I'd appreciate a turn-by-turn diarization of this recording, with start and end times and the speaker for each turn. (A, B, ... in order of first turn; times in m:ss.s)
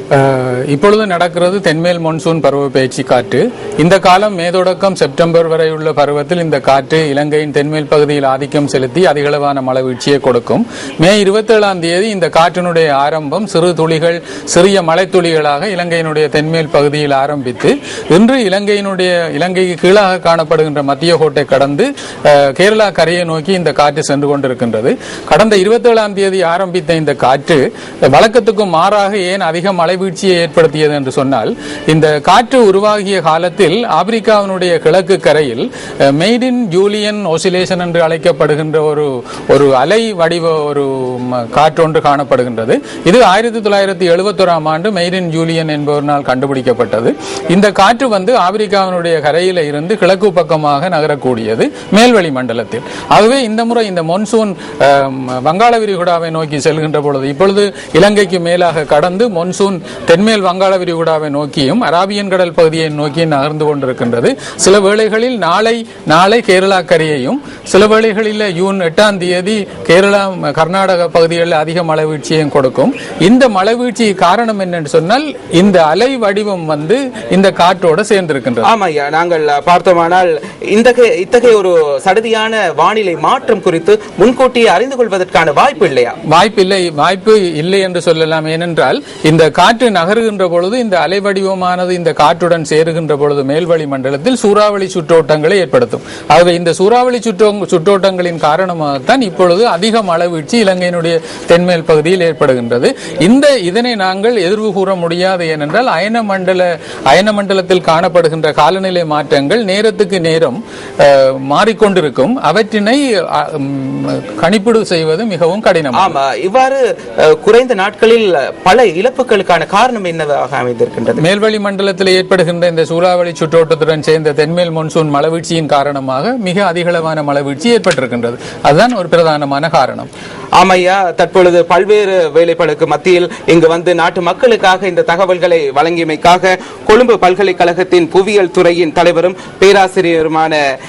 0:00.2-1:18.7 A
1:18.6-1:26.2 B
1:26.3-1:56.1 A
1:55.9-2:01.2 B
2:01.2-2:10.1 A
2:10.6-2:20.6 B